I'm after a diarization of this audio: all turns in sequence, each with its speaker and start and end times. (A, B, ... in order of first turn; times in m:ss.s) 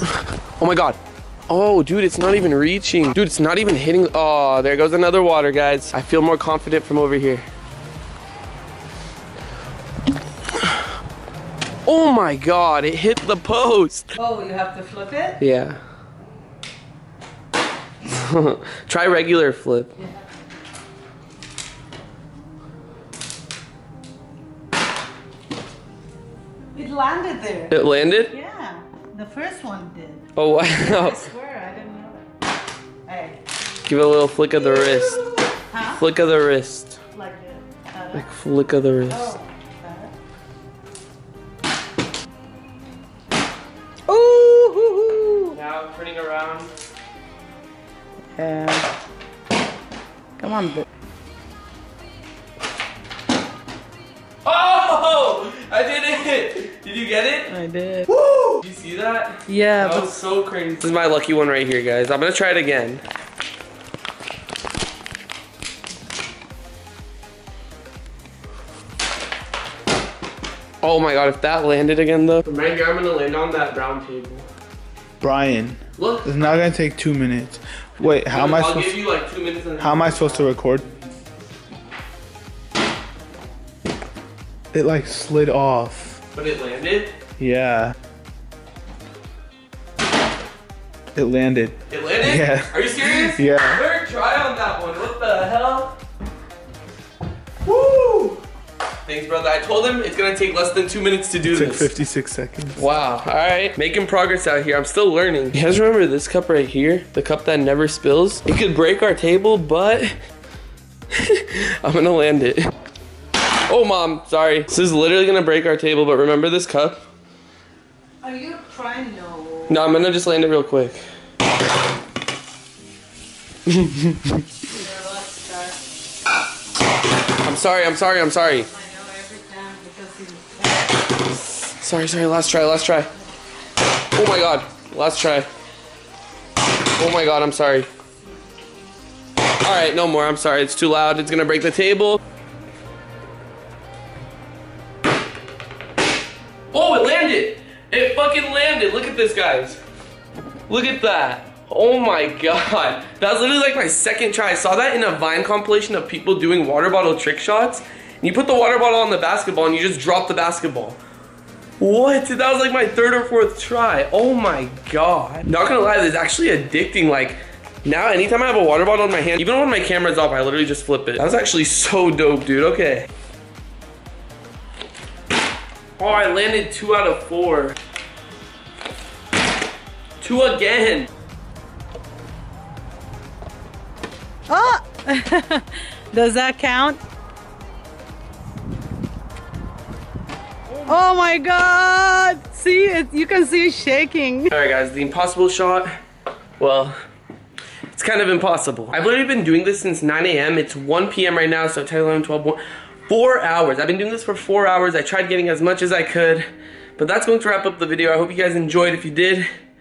0:00.6-0:07.4 A
0:11.8-0:14.0 A
0:14.2-0:15.4 B
0:15.4-0:15.8 A
0:18.0-0:19.9 A
0:26.7-0:27.7 B
0:27.7-0:28.3 A
0:28.3-0:30.2 B
0:30.3-0:31.2 A
0:30.8-0:32.2 B
0:33.0-0:33.4 B
0:33.8-0:35.2 A
0:34.7-0:36.0 B
0:35.9-0:37.0 A
0:37.1-0:38.3 B
0:38.1-0:39.3 A
0:39.1-0:40.1 B
0:44.1-0:45.6 B
0:45.5-0:46.7 A
0:48.4-0:48.9 B
0:50.4-0:50.8 B
0:54.4-0:57.6 A
0:57.5-0:58.1 B
0:58.1-1:03.0 A
0:59.5-1:00.1 B
1:10.8-1:14.4 A
1:15.2-1:19.0 C
1:16.0-1:16.7 A
1:18.0-1:20.9 A
1:19.8-1:20.9 C
1:24.7-1:26.2 C
1:26.3-1:27.1 A
1:27.4-1:27.9 C
1:31.1-1:33.8 C
1:31.9-1:35.9 A
1:37.6-1:38.4 A
1:39.0-1:41.9 A
1:41.4-1:42.8 C
1:42.8-1:50.1 A
1:51.1-1:52.7 A
1:53.7-1:57.0 A
1:58.2-1:59.8 B
1:59.7-2:01.0 A
2:03.7-2:04.2 A
2:04.7-2:05.8 B
2:07.4-2:08.7 A
2:08.7-2:11.0 B
2:11.5-2:13.1 A
2:14.1-2:15.5 A
2:17.0-2:17.9 A
2:19.6-2:22.2 A
2:26.7-2:29.8 A
2:30.7-2:41.0 A
2:41.8-2:53.1 A
2:56.0-2:57.8 A
3:00.2-3:01.1 A
3:04.5-3:07.0 B
3:10.9-3:14.5 B
3:14.5-3:15.9 A
3:16.6-3:16.9 A
3:17.9-3:26.4 A
3:27.0-3:29.4 A